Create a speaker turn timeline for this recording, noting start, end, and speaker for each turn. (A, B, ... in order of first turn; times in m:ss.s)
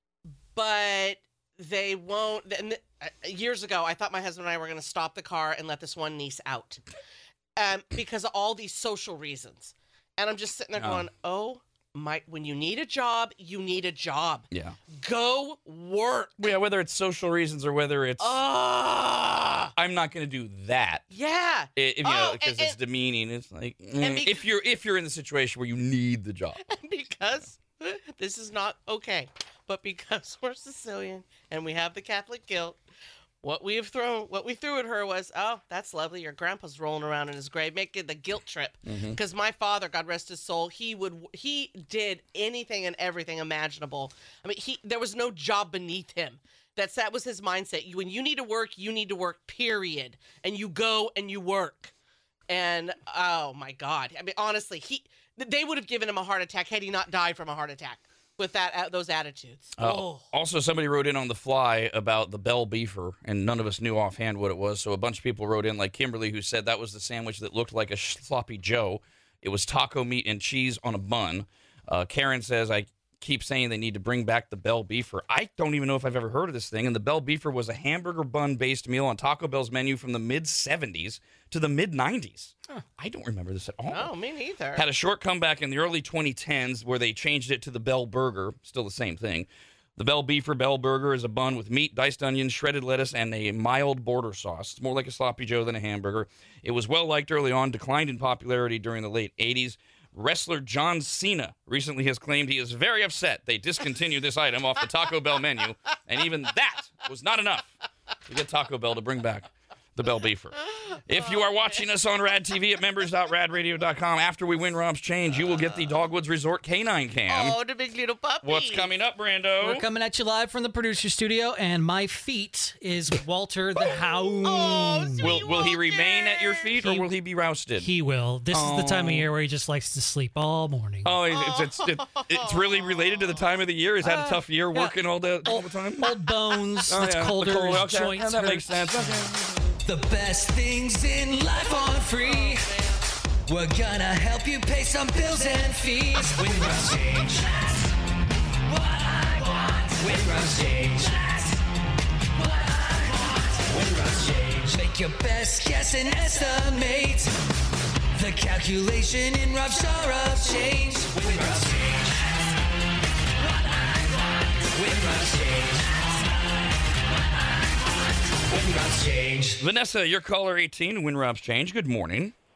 0:00.6-0:06.8 A
0:07.6-0:16.4 A
0:10.8-0:11.1 B
0:14.5-0:14.8 B
0:16.4-0:18.4 B
0:18.2-0:19.7 A
0:19.8-0:21.0 B
0:21.1-0:22.8 A
0:21.8-0:26.6 B
0:24.0-0:24.4 A
0:26.6-0:32.8 A
0:33.4-0:51.9 A
0:38.8-0:39.2 B
0:52.5-1:00.2 A
0:59.8-1:24.1 B
1:23.9-1:24.8 A
1:24.8-1:47.7 B
1:48.3-1:57.6 B
1:50.8-1:51.8 A
1:55.4-1:55.9 A
1:57.3-1:58.9 A
1:58.4-1:59.9 B
1:59.6-2:05.4 C
2:04.4-2:06.7 A
2:05.2-2:07.9 B
2:06.8-2:07.1 C
2:07.8-2:11.2 C
2:08.5-2:09.3 B
2:11.0-2:16.2 B
2:11.3-2:13.2 A
2:14.7-2:19.3 C
2:16.9-2:19.8 B
2:19.8-2:22.7 D
2:21.6-2:23.0 A
2:23.5-2:27.6 D
2:29.3-2:31.6 D
2:32.5-2:37.3 D
2:38.2-2:42.1 D
2:44.7-2:45.9 D
2:48.5-2:49.6 D
2:49.6-2:52.3 B